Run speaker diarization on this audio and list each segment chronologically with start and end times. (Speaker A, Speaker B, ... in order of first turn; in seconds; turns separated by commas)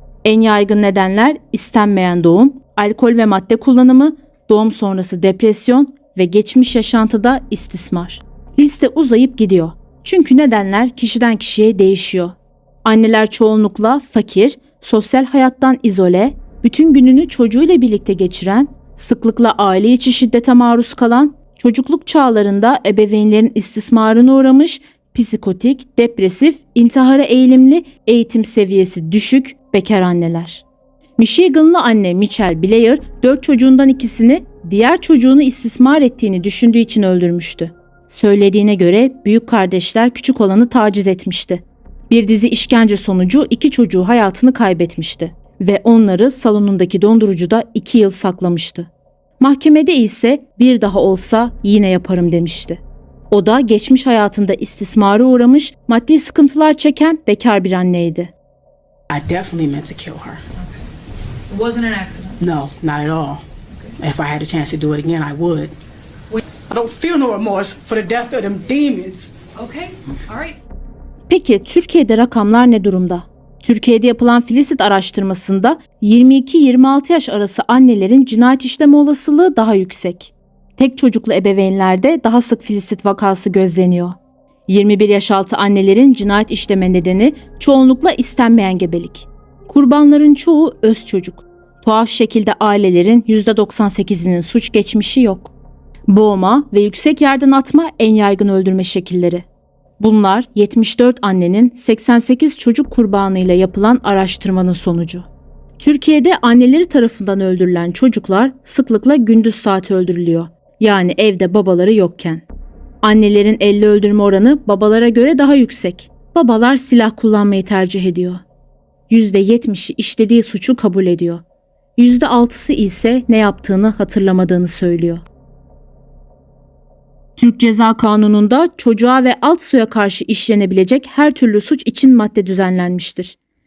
Speaker A: 0.2-30.6, Speaker A: 31.2-58.3, Speaker B: 59.1-60.4, Speaker C: 61.5-62.4, Speaker B: 62.4-63.4, Speaker B: 64.0-65.7, Speaker B: 66.7-69.3, Speaker C: 69.5-70.5, Speaker A: 71.3-84.2, Speaker A: 84.7-95.5, Speaker A: 96.1-99.4, Speaker A: 100.0-105.3, Speaker A: 105.8-112.4, Speaker A: 113.0-118.4, Speaker A: 119.1-121.4, Speaker A: 122.0-125.2, Speaker A: 127.4-133.4